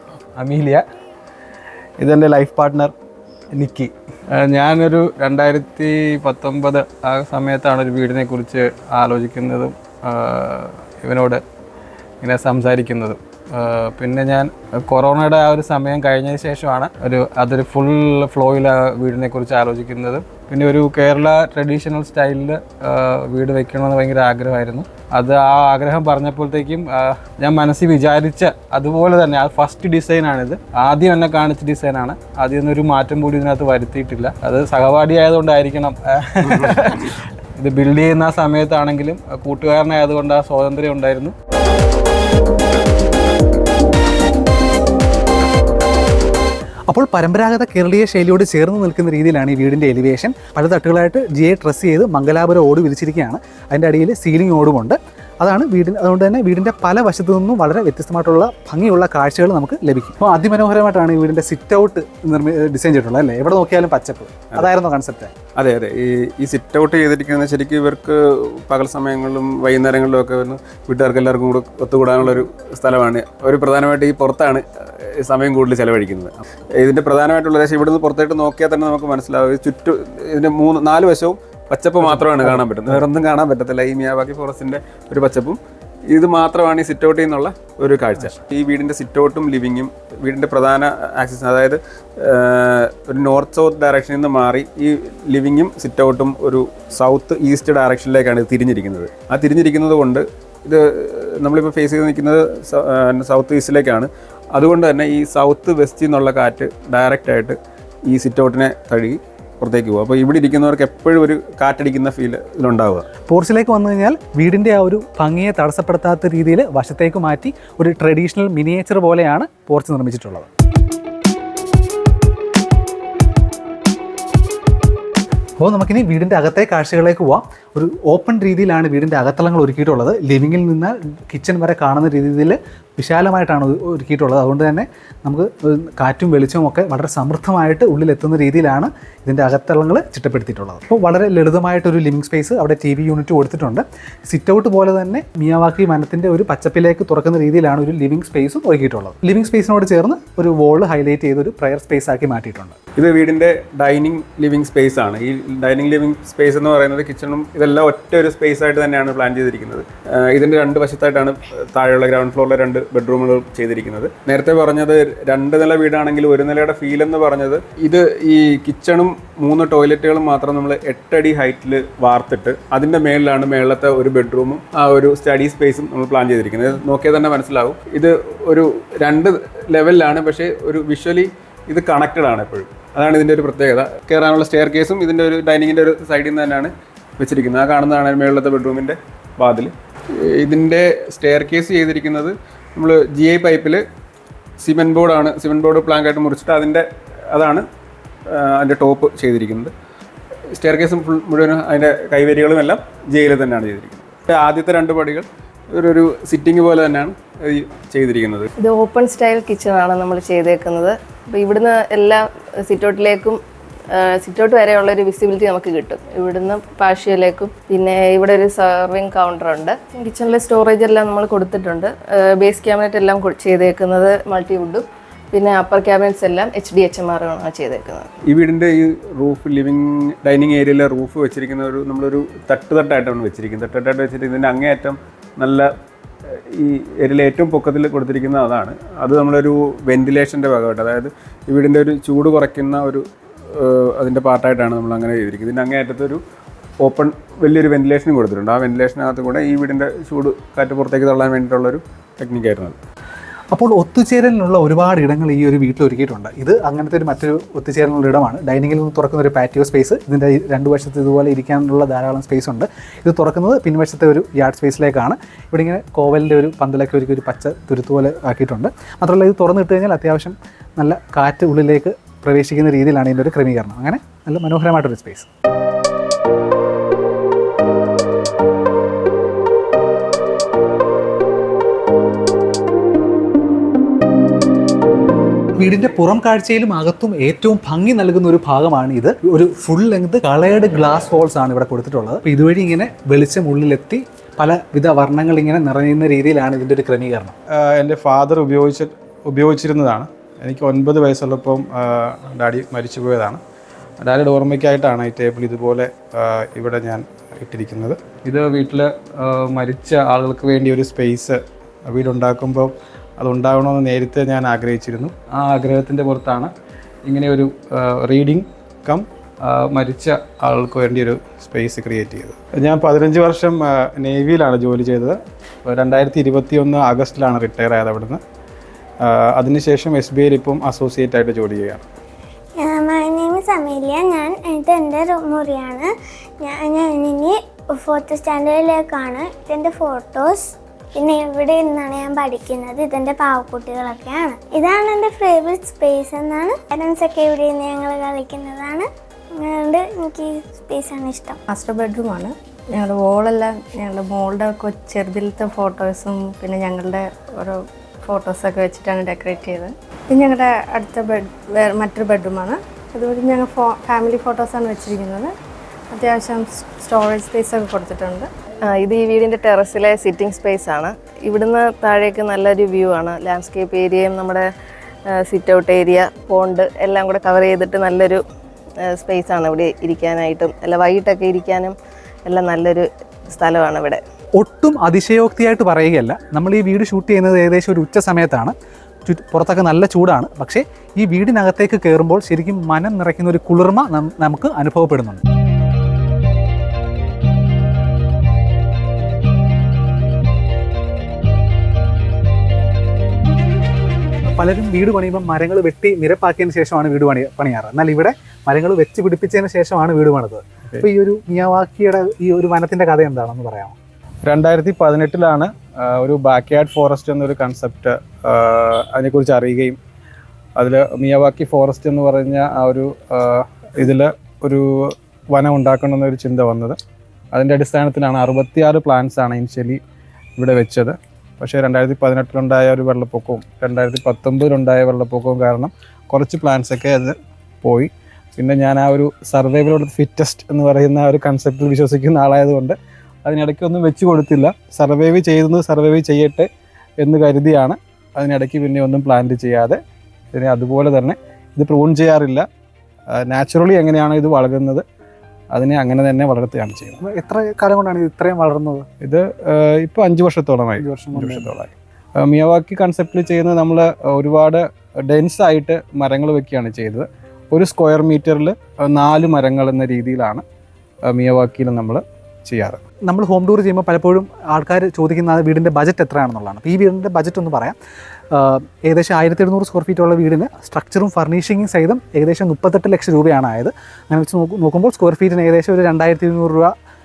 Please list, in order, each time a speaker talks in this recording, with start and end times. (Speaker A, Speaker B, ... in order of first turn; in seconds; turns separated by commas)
Speaker A: 0.4-0.8, Speaker A: 2.0-2.9, Speaker A: 3.5-11.4, Speaker A: 12.2-41.3, Speaker B: 46.9-65.3, Speaker C: 65.6-85.6, Speaker B: 82.1-83.0, Speaker C: 86.1-107.6, Speaker C: 108.1-113.1, Speaker B: 113.3-120.5, Speaker B: 125.6-152.8, Speaker C: 153.0-193.8, Speaker C: 194.6-197.7, Speaker C: 198.3-199.7, Speaker C: 200.5-208.5, Speaker D: 208.6-213.4, Speaker D: 213.9-228.1, Speaker C: 228.3-235.7, Speaker C: 236.5-246.2, Speaker C: 246.8-252.8, Speaker B: 253.5-275.3, Speaker B: 285.6-297.3, Speaker A: 297.6-303.4, Speaker A: 304.0-316.5, Speaker A: 317.1-328.2, Speaker A: 329.0-331.9, Speaker E: 332.6-335.9, Speaker E: 336.4-351.4, Speaker F: 351.5-357.6, Speaker F: 358.1-361.1, Speaker F: 361.8-365.3, Speaker F: 365.9-368.2, Speaker D: 368.7-374.4, Speaker D: 375.2-378.2, Speaker D: 378.9-381.8, Speaker D: 382.3-384.0, Speaker B: 384.4-388.5, Speaker B: 389.1-395.2, Speaker B: 404.4-413.8, Speaker A: 414.2-419.8, Speaker A: 420.6-426.8, Speaker A: 427.3-429.8, Speaker A: 430.4-446.5, Speaker A: 447.0-449.8, Speaker A: 450.3-452.4, Speaker A: 453.1-454.8, Speaker A: 455.5-457.0, Speaker B: 457.0-458.9, Speaker A: 459.0-470.4, Speaker B: 460.8-461.5, Speaker A: 471.1-472.8, Speaker B: 473.1-477.8, Speaker B: 478.3-486.7